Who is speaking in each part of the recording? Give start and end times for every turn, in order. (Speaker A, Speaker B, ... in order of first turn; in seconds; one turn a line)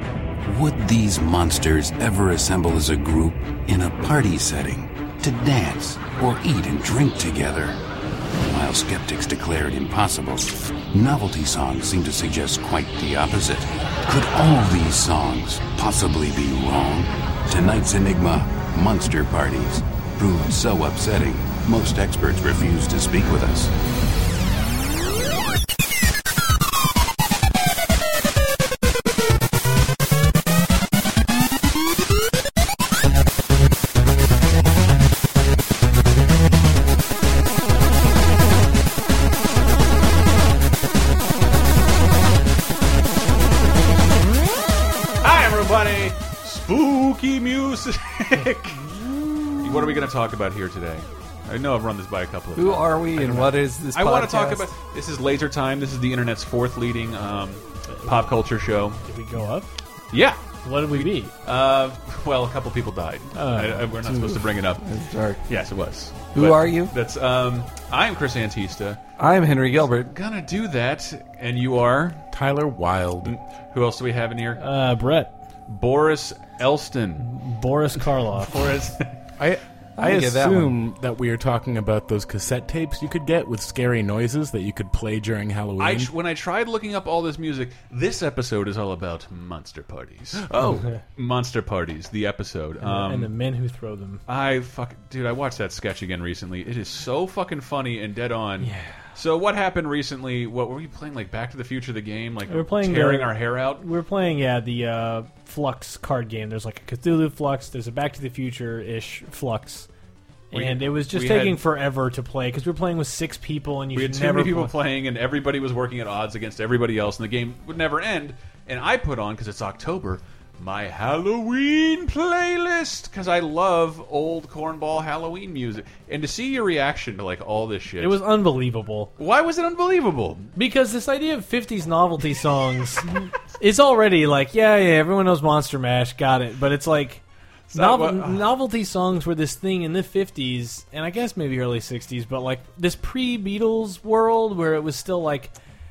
Speaker A: 0.4-7.8
Speaker A: 8.4-23.7
Speaker B: 45.2-49.0
Speaker B: 49.6-59.0
Speaker C: 52.5-54.7
Speaker D: 57.9-58.3
Speaker D: 59.0-59.7
Speaker B: 60.1-64.8
Speaker D: 60.6-61.3
Speaker D: 63.4-64.4
Speaker C: 64.8-65.4
Speaker B: 65.5-69.0
Speaker C: 66.3-66.9
Speaker C: 69.2-70.1
Speaker B: 70.1-72.2
Speaker E: 72.3-73.3
Speaker B: 73.2-74.6
Speaker D: 74.6-75.3
Speaker B: 75.7-77.3
Speaker D: 77.2-78.9
Speaker B: 78.4-79.0
Speaker E: 79.4-86.1
Speaker C: 80.0-80.8
Speaker B: 85.8-93.3
Speaker D: 92.8-94.2
Speaker B: 94.3-103.8
Speaker D: 98.6-99.0
Speaker D: 102.5-109.9
Speaker B: 110.5-111.6
Speaker D: 110.5-114.8
Speaker B: 114.0-128.2
Speaker D: 128.0-129.1
Speaker B: 129.2-130.5
Speaker D: 130.6-145.5
Speaker B: 137.7-138.5